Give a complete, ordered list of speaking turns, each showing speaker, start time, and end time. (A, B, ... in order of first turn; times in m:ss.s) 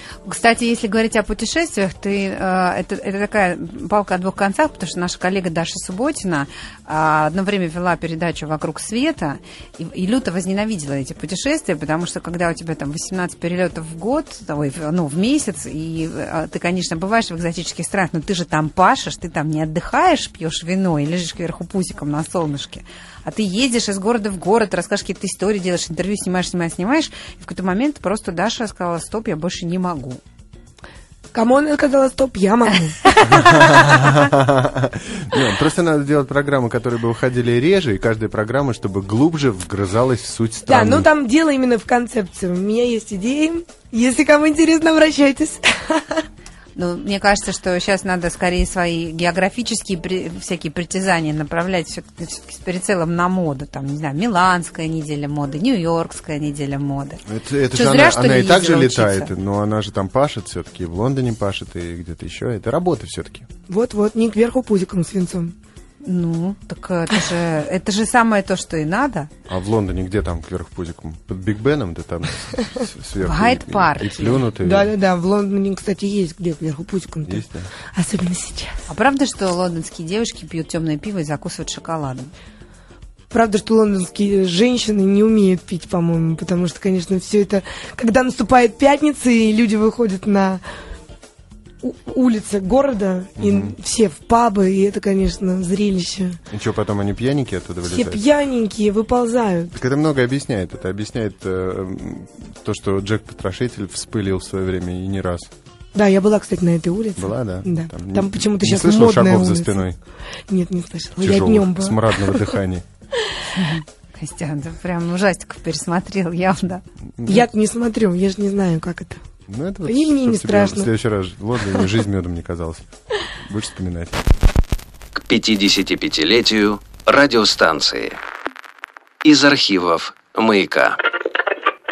0:00.2-0:30.2 A
0:31.3-0:33.6 B
0:33.0-0:33.4 A
0:33.2-0:41.1 C
0:40.7-0:46.2 B
0:46.8-0:59.3 A
0:57.3-1:03.5 C
1:03.7-1:05.5 B
1:06.0-1:09.3 A
1:09.5-1:14.9 C
1:13.2-1:14.5 A
1:14.6-1:18.8 B
1:17.2-1:17.7 C
1:18.9-1:22.3 A
1:23.3-1:30.6 B
1:31.8-1:36.4 B
1:33.4-1:33.7 C
1:36.5-1:38.2 C
1:37.9-1:39.7 B
1:39.7-1:45.5 C
1:46.0-1:49.8 B
1:47.2-1:50.0 C
1:50.5-1:52.6 B
1:51.2-1:52.8 C
1:53.5-1:56.8 A
1:57.2-1:57.5 C
1:57.3-1:59.2 B
1:59.5-2:02.8 C
1:59.9-2:00.9 B
2:03.5-2:04.2 C
2:05.2-2:08.2 D
2:09.2-2:11.0 D